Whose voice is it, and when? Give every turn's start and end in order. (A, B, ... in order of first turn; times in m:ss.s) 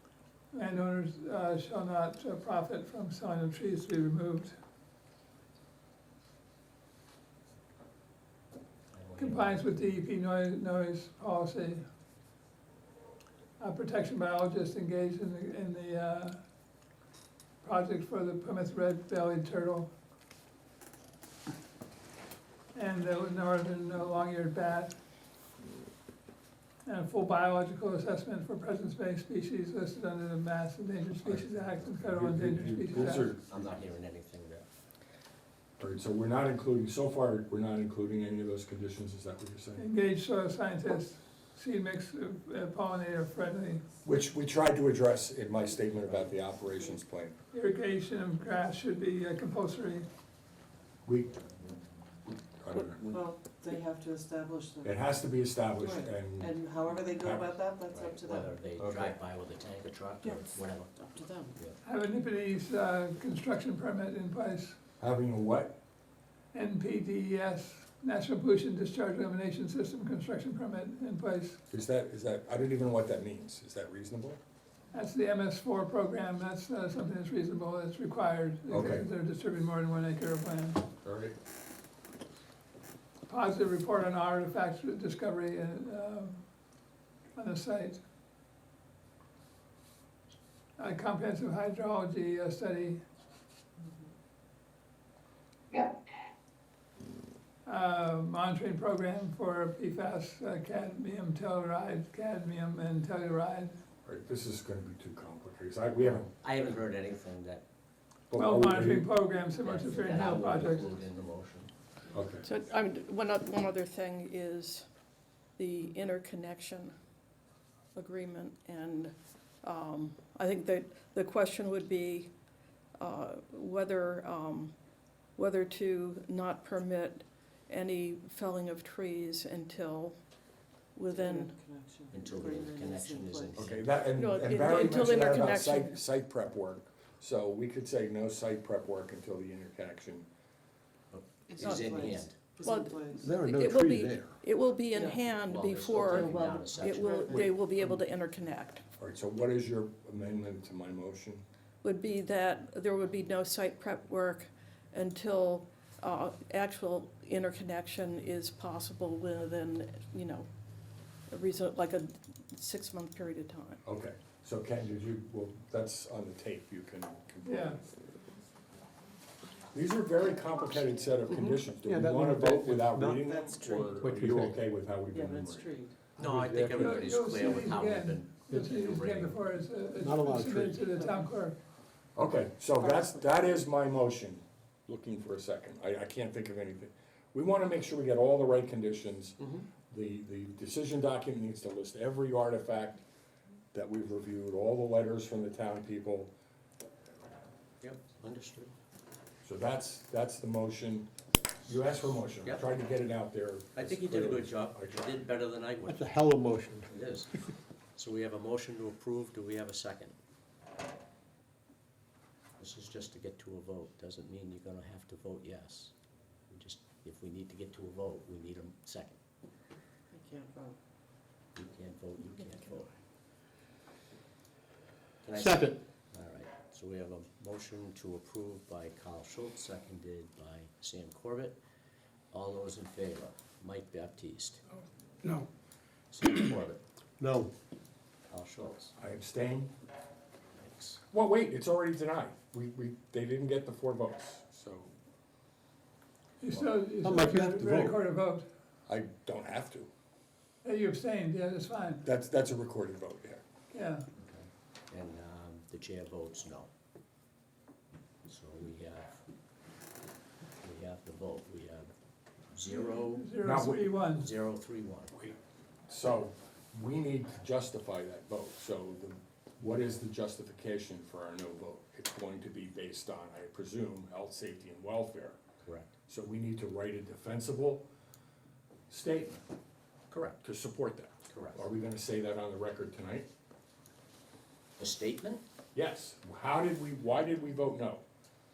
0:00.5-0:04.6 A
0:08.9-0:10.0 B
0:09.2-0:11.8 A
0:13.6-0:16.4 A
0:17.6-0:19.9 A
0:22.7-0:24.9 A
0:26.8-0:33.3 A
0:31.2-0:33.4 C
0:32.9-0:34.7 B
0:35.8-0:39.8 C
0:39.8-0:43.8 A
0:44.0-0:47.4 C
0:46.0-0:46.4 B
0:47.5-0:50.1 A
0:51.0-0:51.4 C
0:52.6-0:53.2 C
0:52.9-0:55.0 D
0:54.8-0:56.6 C
0:55.8-0:58.6 D
0:57.2-0:57.5 C
0:57.9-1:01.8 B
0:58.8-0:59.2 C
1:01.1-1:01.5 D
1:01.8-1:04.8 A
1:05.0-1:05.8 C
1:06.5-1:11.6 A
1:11.7-1:14.4 C
1:14.9-1:20.8 A
1:18.7-1:19.1 C
1:21.0-1:21.3 C
1:23.3-1:26.5 A
1:27.4-1:28.0 A
1:30.8-1:33.0 A
1:37.6-1:43.8 A
1:44.0-1:46.3 C
1:46.1-1:47.6 B
1:48.3-1:49.1 C
1:48.3-1:51.0 A
1:49.6-1:51.7 B
1:52.1-1:52.4 C
1:52.4-1:54.9 E
1:55.6-1:56.9 E
1:58.0-2:02.3 E
2:03.0-2:04.7 E
2:05.4-2:10.2 E
2:11.0-2:11.6 E
2:11.1-2:13.7 D
2:12.1-2:14.0 B
2:13.6-2:20.3 C
2:14.1-2:16.0 E
2:21.1-2:22.5 B
2:21.5-2:23.4 D
2:21.6-2:21.9 E
2:22.6-2:28.8 E
2:23.2-2:24.4 F
2:24.9-2:25.2 D
2:25.4-2:27.5 B
2:26.0-2:27.6 D
2:29.0-2:31.4 C
2:31.8-2:40.5 E
2:41.3-2:43.8 E
2:43.9-2:47.8 C
2:47.4-2:47.8 A
2:49.7-2:55.7 C
2:51.3-2:54.6 F
2:53.4-2:53.7 D
2:55.1-2:56.0 D
2:56.2-2:57.4 F
2:56.2-2:59.4 B
2:56.8-3:01.6 A
3:00.0-3:00.9 F
3:02.2-3:13.0 C
3:02.8-3:03.2 D
3:09.4-3:09.6 B
3:13.7-3:16.3 C
3:17.8-3:18.7 B
3:19.4-3:21.1 C
3:21.7-3:25.2 C
3:23.8-3:26.3 B
3:25.8-3:26.9 F
3:26.9-3:27.3 B
3:28.0-3:30.2 B
3:32.6-3:35.9 B
3:36.5-3:39.2 B
3:40.1-3:40.8 D
3:41.6-3:42.9 B
3:45.2-3:51.6 B
3:45.4-3:45.8 F
3:52.3-3:54.6 B
3:56.1-3:56.8 B
3:57.2-3:57.5 F
3:58.3-3:58.9 B
3:59.0-3:59.7 C
4:00.6-4:01.0 B
4:01.1-4:04.9 C
4:06.4-4:08.5 A
4:07.0-4:08.0 F
4:08.9-4:09.9 C
4:10.6-4:12.0 A
4:12.0-4:13.4 C
4:13.7-4:14.1 A
4:14.2-4:16.7 B
4:18.3-4:19.2 B
4:20.6-4:21.9 B
4:22.5-4:23.4 B
4:22.6-4:24.3 A
4:23.4-4:23.9 C
4:24.2-4:25.1 B
4:25.9-4:35.4 C
4:35.6-4:35.9 B
4:36.1-4:37.9 C
4:38.9-4:39.4 C
4:40.1-4:40.4 B
4:40.4-4:43.3 C
4:41.3-4:41.6 B
4:44.8-4:45.4 B
4:45.7-4:48.0 C